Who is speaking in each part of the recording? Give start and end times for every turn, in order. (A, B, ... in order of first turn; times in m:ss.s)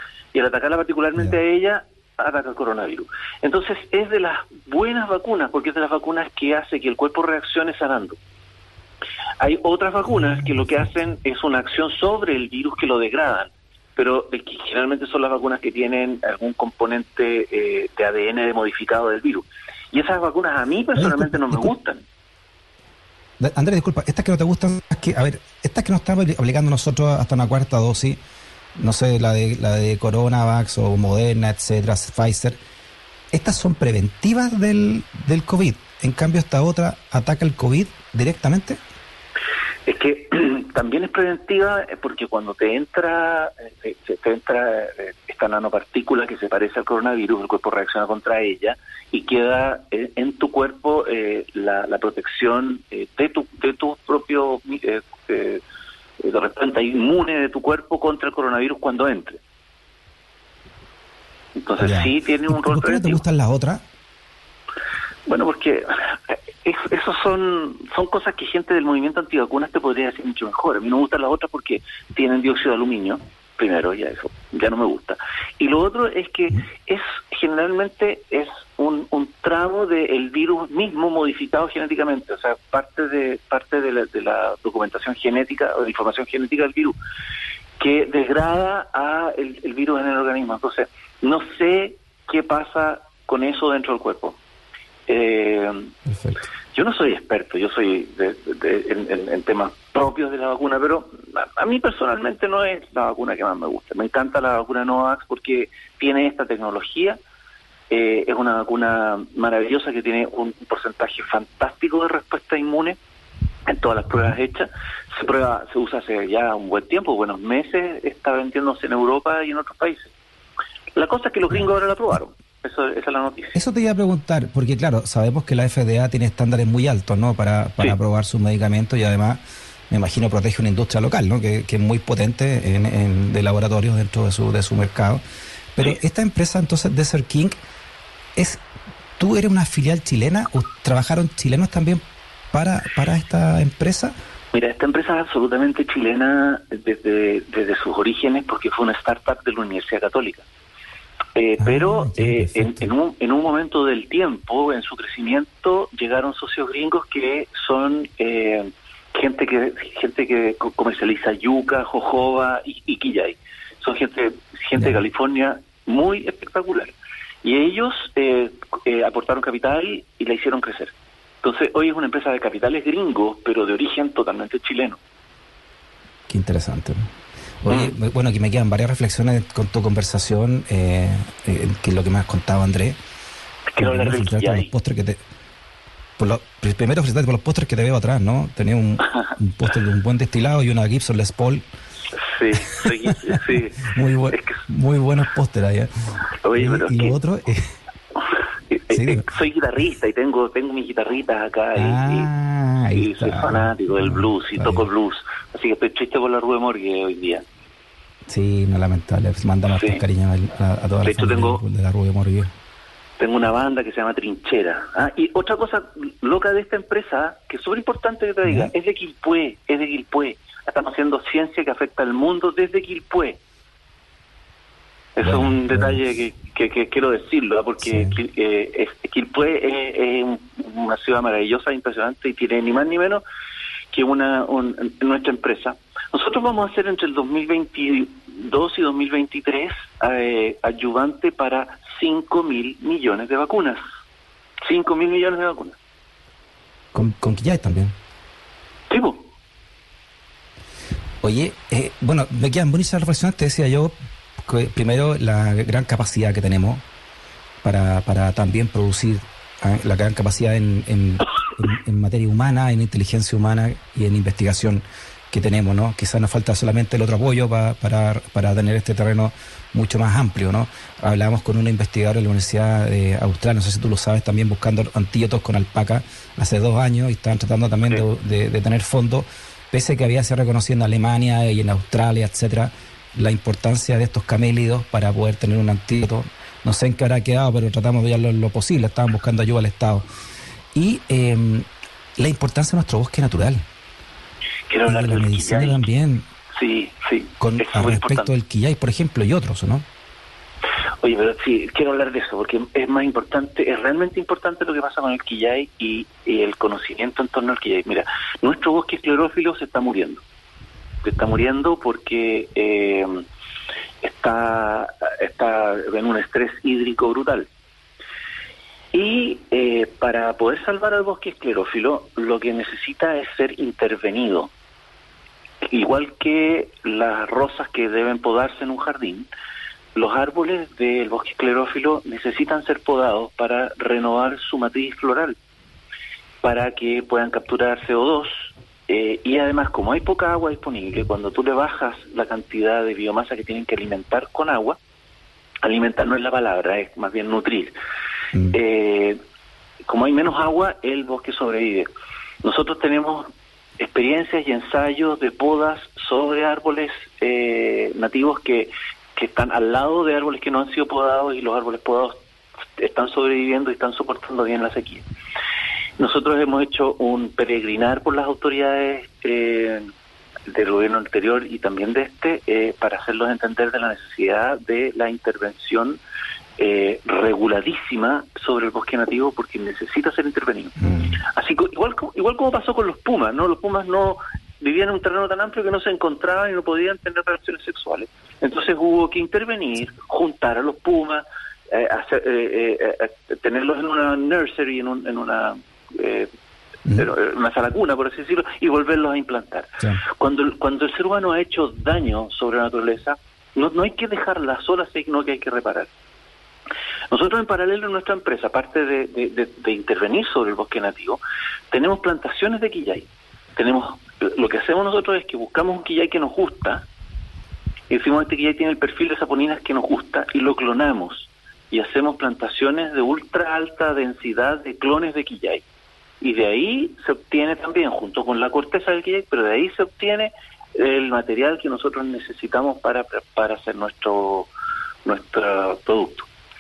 0:00.3-0:08.2 A
0:09.4-0:22.0 A
0:21.0-0:21.7 B
0:23.4-0:28.2 B
0:28.8-0:32.6 B
0:33.3-0:38.8 B
0:39.8-0:55.6 A
0:56.2-0:59.4 A
1:01.6-1:03.2 A
1:01.8-1:03.8 B
1:05.3-1:27.0 A
1:27.8-1:34.4 A
1:35.1-1:35.9 A
1:36.1-1:36.4 B
1:36.7-1:47.2 A
1:47.9-1:53.0 A
1:53.7-2:00.1 A
2:00.9-2:03.6 A
2:03.5-2:15.2 B
2:15.7-2:17.6 B
2:18.4-2:18.6 B
2:19.2-2:24.1 B
2:24.5-2:30.4 A
2:31.4-2:55.0 A
2:31.6-2:32.9 B
2:56.3-2:57.1 B
2:57.6-3:03.0 B
3:03.7-3:04.7 A
3:03.8-3:05.2 B
3:06.2-3:11.6 B
3:12.3-3:13.8 A
3:13.8-3:17.7 B
3:14.3-3:14.6 A
3:16.4-3:17.2 A
3:18.7-3:22.3 A
3:18.9-3:19.2 B
3:21.8-3:24.8 B
3:22.9-3:27.4 A
3:28.3-3:32.5 B
3:29.7-3:30.0 A
3:31.0-3:31.6 A
3:33.2-3:43.4 A
3:38.4-3:38.7 B
3:45.2-3:53.2 A
3:45.2-3:46.0 B
3:47.9-3:48.1 B
3:53.9-4:03.8 A
4:04.7-4:05.8 A
4:06.9-4:07.9 B
4:08.9-4:09.3 A
4:11.2-4:16.8 B
4:17.6-4:50.0 B
4:50.7-4:53.6 B
4:54.7-4:55.8 A
4:54.8-4:56.3 B
4:56.6-4:58.3 A
4:57.4-4:59.8 B
5:01.0-5:10.2 A
5:11.0-5:13.2 A
5:14.0-5:17.5 A
5:18.9-5:24.5 A
5:25.6-5:29.3 A
5:29.9-5:35.4 A
5:36.4-5:44.8 A
5:45.6-5:47.7 A
5:48.5-5:49.2 A
5:49.9-5:51.9 A
5:52.4-5:53.3 A
5:53.8-6:02.1 A
6:02.8-6:05.0 A
6:06.0-6:09.9 A
6:10.5-6:16.0 A
6:16.6-6:36.3 A
6:36.9-6:45.9 A
6:47.1-6:56.8 A
6:57.9-7:05.6 A
7:06.2-7:14.5 A
7:15.0-7:16.3 A